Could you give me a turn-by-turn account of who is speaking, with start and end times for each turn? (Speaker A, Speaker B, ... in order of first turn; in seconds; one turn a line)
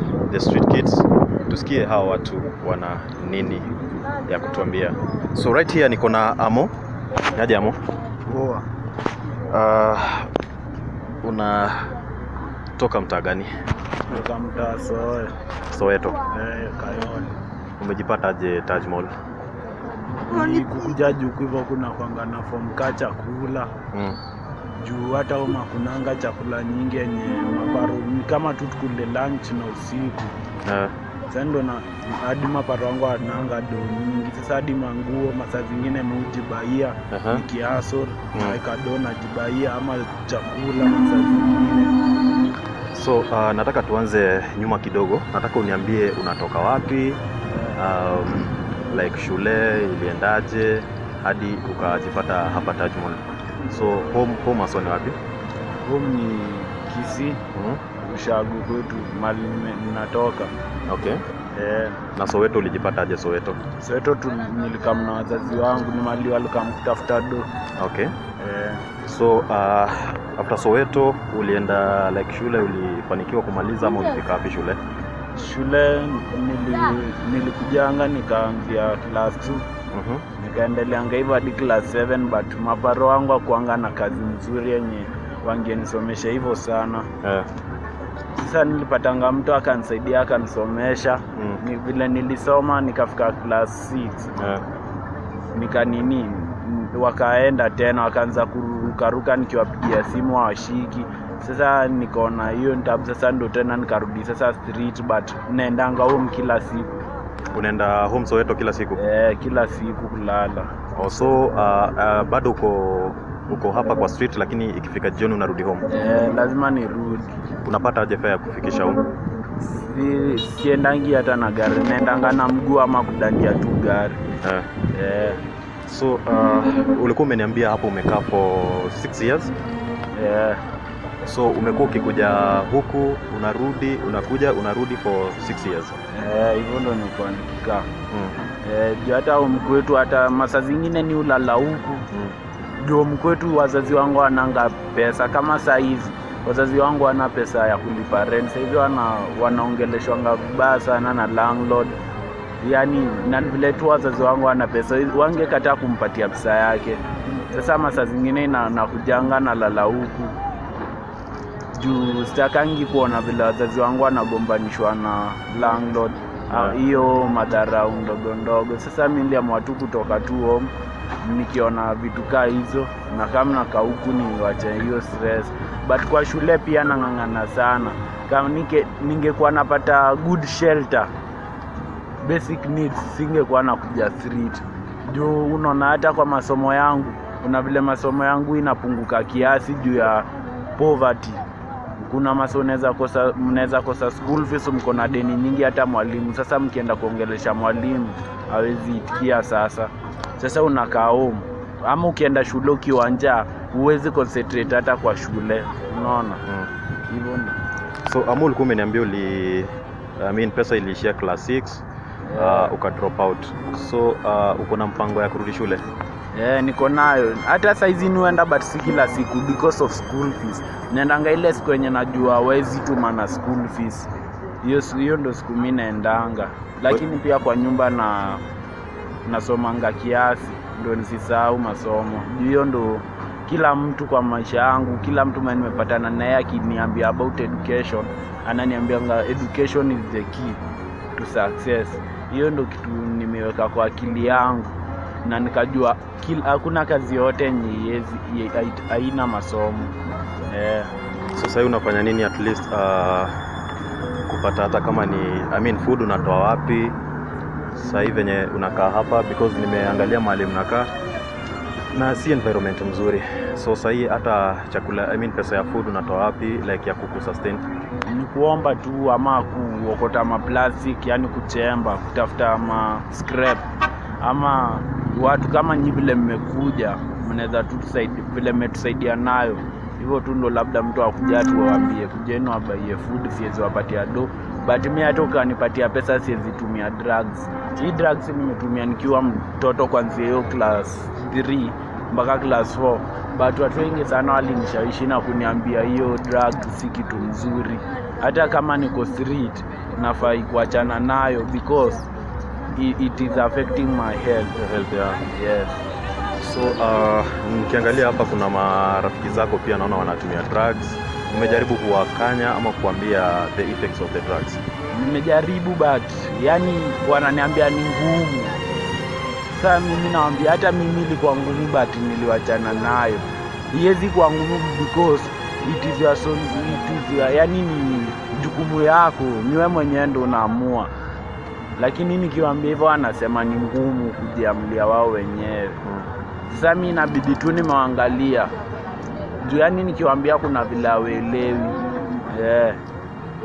Speaker A: 0.3-3.7
Speaker A: 4.2-7.8
Speaker B: 8.3-8.7
Speaker A: 9.5-10.3
Speaker A: 11.2-11.9
Speaker A: 12.8-13.5
Speaker B: 14.1-15.3
Speaker A: 15.7-16.2
Speaker B: 16.3-17.4
Speaker A: 17.8-19.1
Speaker B: 20.2-23.7
Speaker A: 23.9-24.2
Speaker B: 24.8-30.4
Speaker A: 30.6-30.9
Speaker B: 31.3-42.0
Speaker A: 37.1-37.4
Speaker A: 42.9-47.2
Speaker A: 47.7-55.2
Speaker B: 55.8-57.4
Speaker A: 57.5-57.8
Speaker B: 58.0-60.5
Speaker A: 60.9-61.2
Speaker B: 61.5-62.0
Speaker A: 62.1-63.6
Speaker B: 63.8-67.5
Speaker A: 67.8-68.1
Speaker B: 68.4-68.8
Speaker A: 69.0-74.8
Speaker B: 75.3-79.7
Speaker A: 79.9-80.2
Speaker B: 80.4-87.1
Speaker B: 88.4-94.3
Speaker A: 91.4-91.6
Speaker A: 94.4-94.7
Speaker B: 95.5-106.9
Speaker A: 107.5-109.0
Speaker B: 109.0-110.7
Speaker A: 111.0-115.9
Speaker B: 115.9-117.3
Speaker A: 117.7-119.0
Speaker B: 119.6-124.2
Speaker A: 124.4-124.7
Speaker B: 124.9-125.4
Speaker A: 125.9-129.5
Speaker B: 130.2-130.6
Speaker A: 131.2-136.0
Speaker B: 136.1-137.9
Speaker A: 138.1-138.4
Speaker B: 138.6-142.1
Speaker B: 142.8-152.0
Speaker B: 152.6-160.4
Speaker B: 161.8-170.7
Speaker A: 166.5-166.8
Speaker B: 171.2-181.1
Speaker B: 182.2-191.5
Speaker B: 192.0-206.4
Speaker A: 206.4-206.7
Speaker B: 207.1-207.6
Speaker A: 208.1-211.8
Speaker B: 212.3-212.7
Speaker A: 212.3-215.8
Speaker B: 216.3-224.1
Speaker B: 224.6-228.4
Speaker B: 229.3-240.6
Speaker B: 241.2-249.9
Speaker B: 250.5-250.9
Speaker A: 251.3-253.3
Speaker A: 254.3-257.0
Speaker A: 257.8-260.9
Speaker A: 261.9-267.6
Speaker B: 268.1-273.6
Speaker B: 274.2-302.1
Speaker B: 302.8-304.5
Speaker A: 304.6-305.2
Speaker B: 305.3-305.8
Speaker A: 306.4-314.6
Speaker B: 311.3-311.7
Speaker B: 314.9-318.6
Speaker B: 319.5-330.9
Speaker B: 331.8-335.8
Speaker B: 336.5-338.5
Speaker B: 339.4-342.8